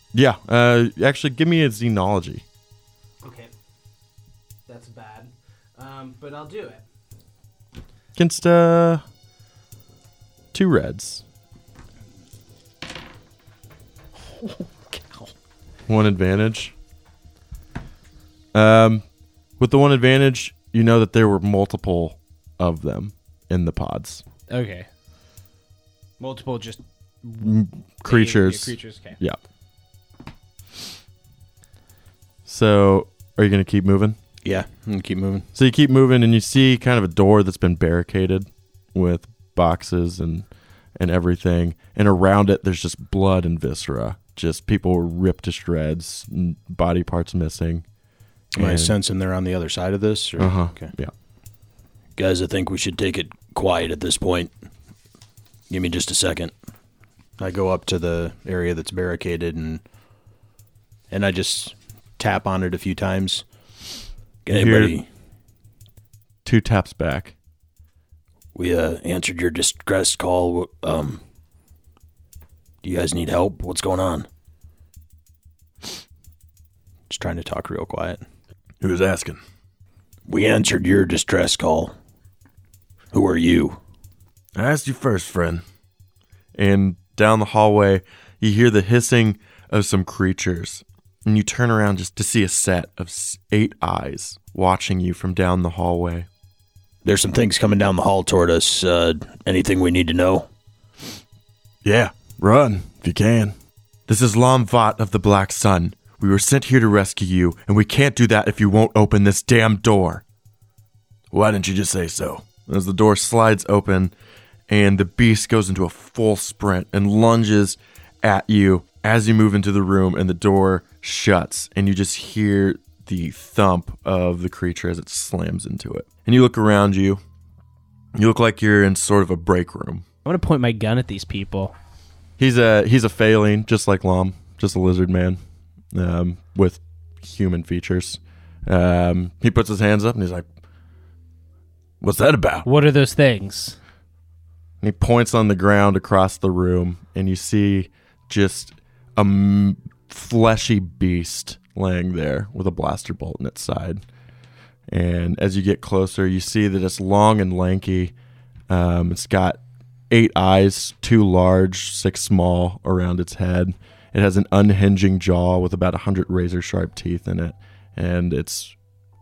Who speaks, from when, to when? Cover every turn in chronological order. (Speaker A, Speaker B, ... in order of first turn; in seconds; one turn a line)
Speaker A: 0.1-2.4
Speaker B: 3.2-3.5
Speaker B: 4.7-6.8
Speaker A: 8.1-9.0
Speaker A: 10.5-11.2
Speaker A: 15.9-16.7
Speaker A: 18.5-19.0
Speaker A: 19.6-24.2
Speaker B: 24.5-24.9
Speaker B: 26.2-27.5
Speaker A: 27.4-29.4
Speaker B: 28.1-29.2
Speaker A: 32.5-34.2
Speaker C: 34.4-35.5
Speaker A: 35.5-47.9
Speaker A: 48.5-48.9
Speaker C: 48.5-50.9
Speaker A: 50.4-51.1
Speaker C: 52.1-54.5
Speaker C: 55.7-56.5
Speaker C: 57.4-59.8
Speaker C: 61.1-63.4
Speaker C: 64.4-65.1
Speaker A: 64.5-65.0
Speaker A: 66.4-67.3
Speaker C: 68.5-71.2
Speaker C: 72.8-74.3
Speaker C: 77.1-78.2
Speaker A: 78.8-79.4
Speaker C: 80.3-81.9
Speaker C: 83.1-83.8
Speaker A: 84.5-85.6
Speaker A: 86.5-96.3
Speaker C: 97.0-100.5
Speaker A: 101.8-103.5
Speaker A: 104.1-110.2
Speaker A: 111.3-114.1
Speaker A: 114.7-127.2
Speaker A: 128.1-130.0
Speaker B: 130.2-131.7
Speaker A: 132.4-135.4
Speaker A: 135.9-140.4
Speaker A: 142.0-142.7
Speaker B: 142.7-143.8
Speaker A: 144.8-154.0
Speaker A: 154.9-158.1
Speaker A: 158.7-168.7